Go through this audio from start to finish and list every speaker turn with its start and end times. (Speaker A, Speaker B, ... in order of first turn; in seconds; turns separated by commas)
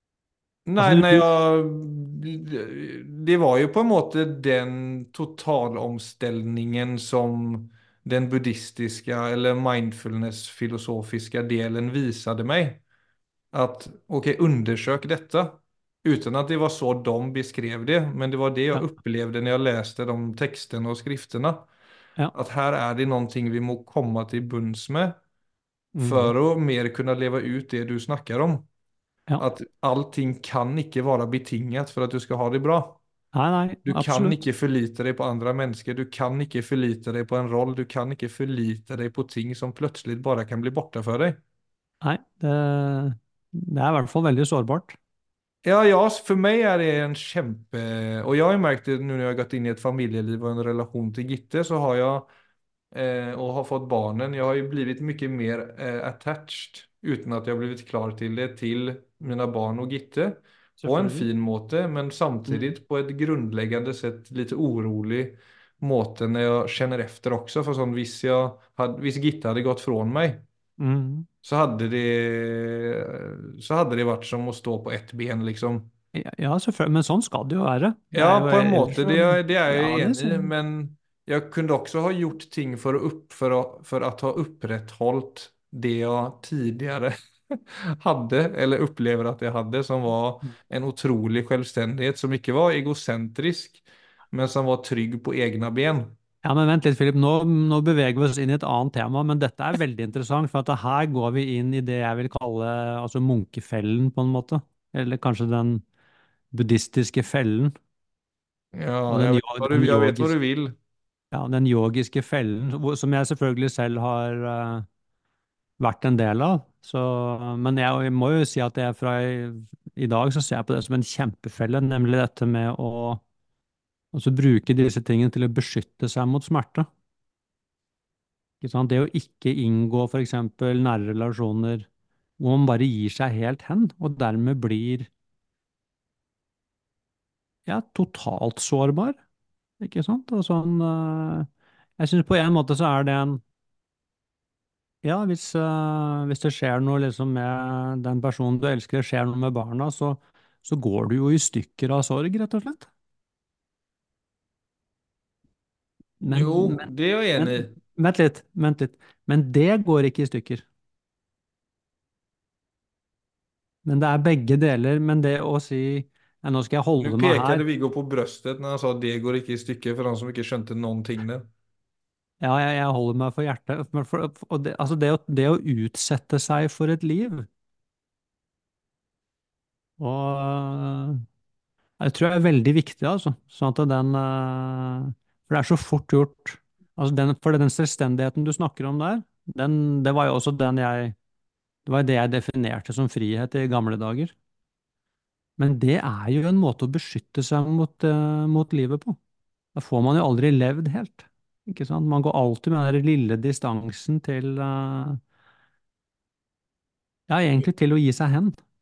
Speaker A: 0.7-12.8, Speaker B: 0.8-1.2, Speaker A: 13.5-21.7, Speaker A: 22.3-25.2, Speaker B: 25.9-26.3, Speaker A: 26.0-28.7, Speaker A: 29.4-33.0, Speaker B: 33.3-34.4, Speaker A: 33.9-41.4, Speaker B: 42.0-45.0, Speaker A: 45.6-52.3, Speaker A: 52.9-70.4, Speaker B: 60.8-61.3, Speaker B: 70.8-71.3, Speaker A: 71.4-75.9, Speaker B: 76.1-80.5, Speaker A: 78.1-96.2, Speaker B: 96.4-105.8, Speaker B: 106.5-107.7, Speaker A: 108.7-110.8, Speaker B: 109.1-110.3, Speaker B: 111.3-114.8, Speaker B: 115.8-123.2, Speaker B: 124.1-126.9, Speaker B: 128.6-131.9, Speaker B: 132.4-135.1, Speaker B: 137.7-139.2, Speaker B: 139.8-141.5, Speaker B: 142.0-143.4, Speaker B: 145.0-152.9, Speaker B: 156.2-160.7, Speaker A: 156.3-157.7, Speaker B: 163.8-167.6, Speaker A: 167.0-171.5, Speaker B: 172.4-177.5, Speaker B: 180.0-181.2, Speaker B: 182.0-191.1, Speaker B: 191.8-194.3, Speaker B: 195.6-199.2, Speaker B: 199.7-205.2, Speaker B: 207.3-208.6